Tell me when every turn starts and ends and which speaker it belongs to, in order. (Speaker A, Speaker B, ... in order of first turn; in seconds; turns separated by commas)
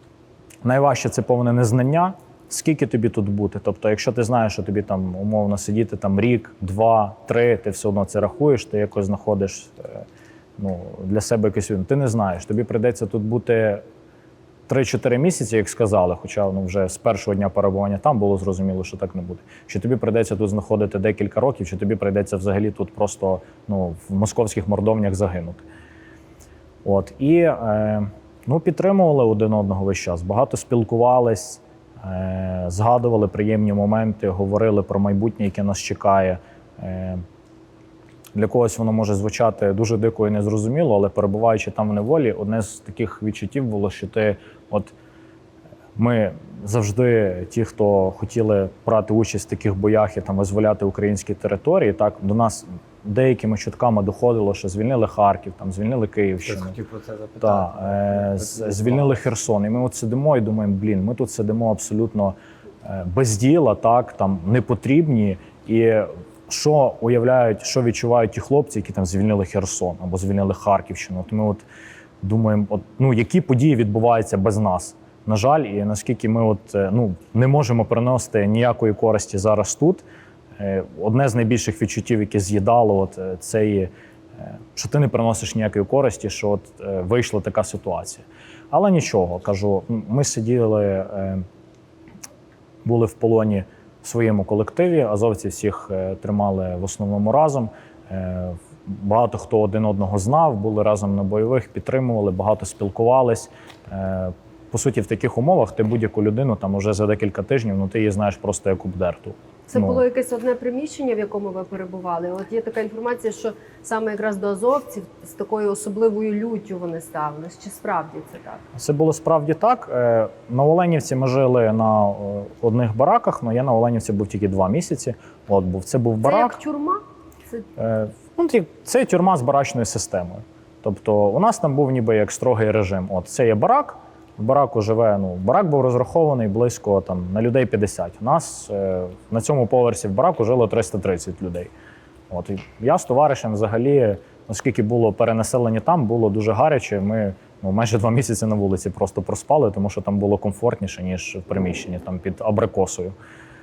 Speaker A: 0.6-10.1, Speaker A: 10.6-13.8, Speaker A: 14.7-25.6, Speaker A: 26.8-37.2, Speaker A: 38.4-44.9, Speaker A: 46.0-56.8, Speaker B: 56.5-59.2, Speaker A: 57.4-71.7, Speaker A: 72.2-80.0, Speaker A: 80.6-83.9, Speaker A: 84.4-91.5, Speaker A: 92.8-110.0, Speaker C: 109.7-118.6, Speaker A: 118.8-126.6, Speaker C: 126.2-127.0, Speaker A: 127.8-141.7, Speaker A: 142.3-153.2